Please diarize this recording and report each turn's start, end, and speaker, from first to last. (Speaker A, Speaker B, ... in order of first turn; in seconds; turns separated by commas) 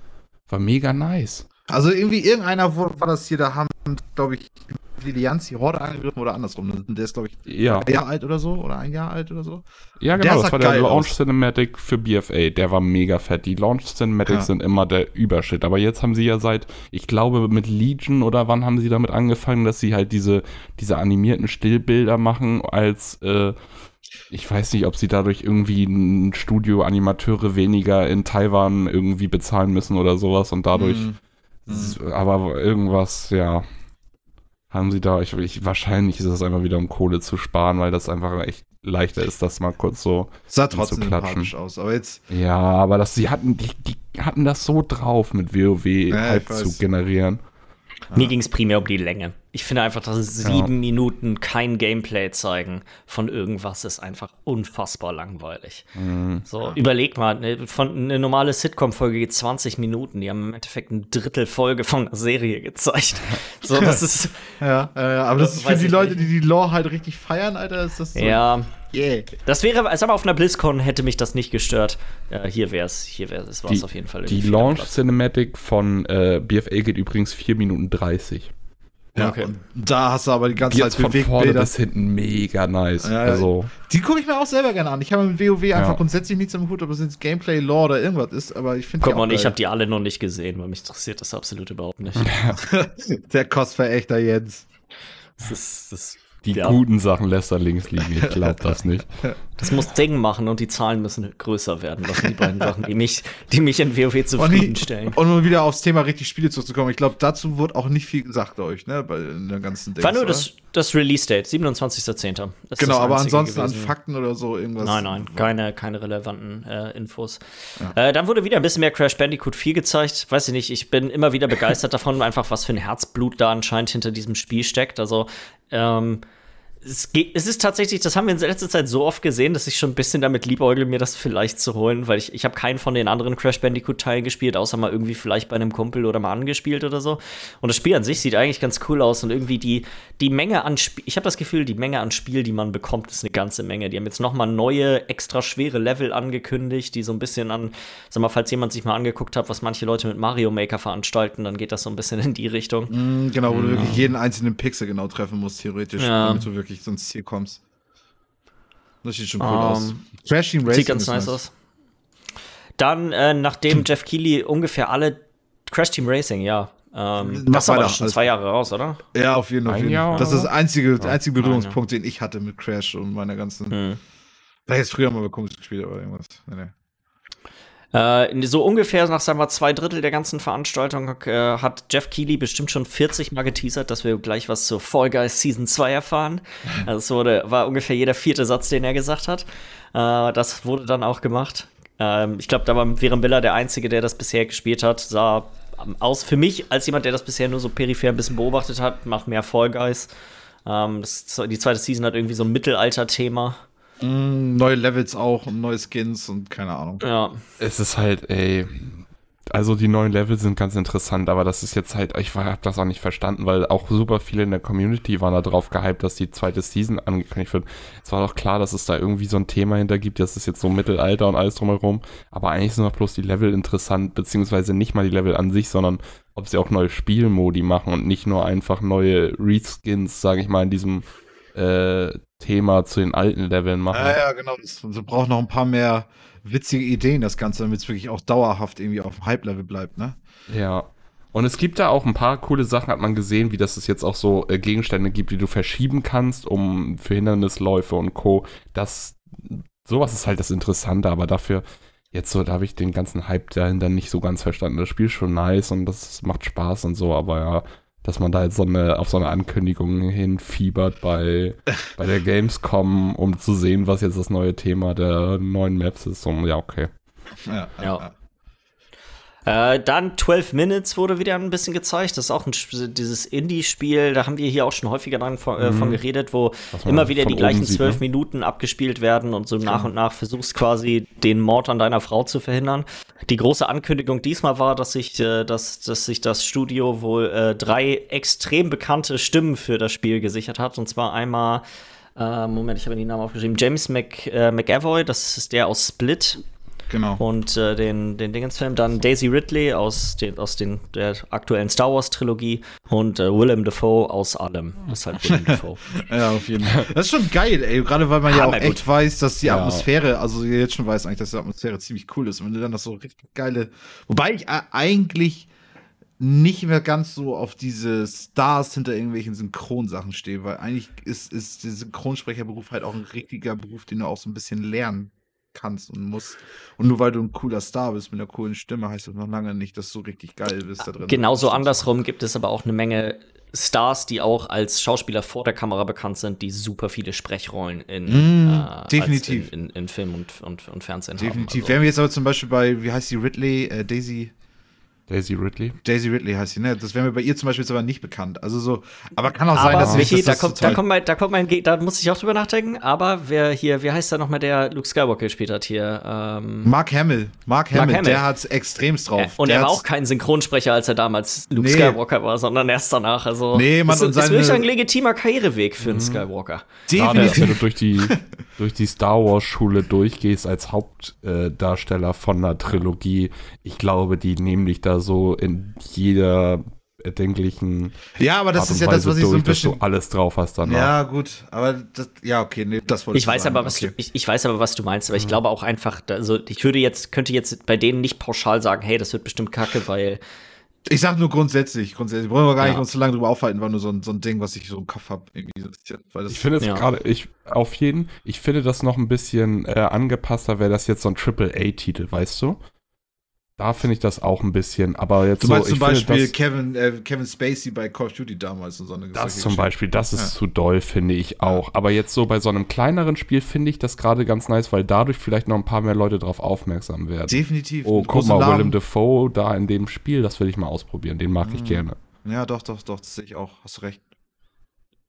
Speaker A: 0.5-1.4, Speaker B: 1.7-9.6, Speaker A: 7.5-7.9, Speaker A: 10.0-23.6, Speaker B: 10.2-11.1, Speaker A: 24.3-31.1, Speaker B: 30.7-32.0, Speaker A: 31.7-33.6, Speaker A: 34.7-41.5, Speaker B: 40.5-42.2, Speaker A: 42.3-47.4, Speaker B: 46.1-46.8, Speaker C: 48.1-55.9, Speaker A: 50.4-50.7, Speaker A: 56.0-56.4, Speaker C: 56.5-64.6, Speaker B: 64.6-69.3, Speaker C: 65.4-66.3, Speaker C: 68.1-68.7, Speaker C: 69.4-74.9, Speaker A: 73.7-78.5, Speaker C: 79.2-79.5, Speaker B: 79.2-81.7, Speaker A: 80.7-83.7, Speaker B: 83.0-89.5, Speaker A: 85.7-86.0, Speaker C: 89.0-92.4, Speaker A: 92.2-92.6, Speaker B: 92.5-94.7, Speaker C: 95.4-96.8, Speaker A: 96.4-99.2, Speaker B: 98.1-99.4, Speaker C: 99.6-105.2, Speaker B: 102.2-102.7, Speaker B: 104.4-110.5, Speaker C: 110.0-113.9, Speaker B: 112.8-115.5, Speaker C: 114.8-117.4, Speaker C: 117.9-126.2, Speaker C: 126.8-152.9, Speaker B: 152.9-157.6, Speaker A: 153.5-153.9, Speaker C: 153.7-154.0, Speaker C: 156.0-156.5, Speaker B: 159.0-161.4, Speaker C: 159.4-160.0, Speaker C: 160.7-161.5, Speaker C: 162.8-169.0, Speaker B: 167.2-168.3, Speaker B: 169.1-173.8, Speaker A: 169.7-170.5, Speaker C: 171.4-171.8, Speaker C: 173.7-174.0, Speaker B: 174.7-176.7, Speaker C: 177.9-200.1, Speaker C: 200.7-203.6, Speaker B: 204.0-207.0, Speaker C: 207.0-207.4, Speaker A: 207.6-234.2, Speaker B: 233.9-240.2, Speaker A: 240.5-266.9, Speaker B: 267.4-268.1, Speaker C: 269.4-291.6, Speaker A: 275.6-276.0, Speaker A: 276.7-278.0, Speaker C: 292.2-296.4, Speaker B: 296.9-297.2, Speaker C: 297.2-306.0, Speaker B: 305.5-315.5, Speaker C: 308.3-308.8, Speaker A: 309.4-309.8, Speaker B: 316.2-331.9, Speaker C: 331.0-341.8, Speaker B: 338.1-339.5, Speaker B: 341.2-344.3, Speaker A: 345.1-345.8, Speaker B: 345.8-350.8, Speaker C: 349.5-356.7, Speaker A: 349.6-350.8, Speaker B: 356.6-359.8, Speaker C: 357.7-358.2, Speaker C: 359.2-367.5, Speaker B: 361.5-362.0, Speaker B: 363.5-364.6, Speaker A: 365.8-366.2, Speaker B: 366.9-368.2, Speaker A: 366.9-380.9, Speaker B: 378.2-379.8, Speaker B: 380.6-383.9, Speaker C: 383.1-390.2, Speaker B: 390.9-396.5, Speaker C: 392.6-392.8, Speaker A: 396.3-402.6, Speaker A: 403.6-406.3, Speaker B: 405.4-410.3, Speaker A: 409.1-421.9, Speaker B: 417.3-418.8, Speaker B: 421.4-424.0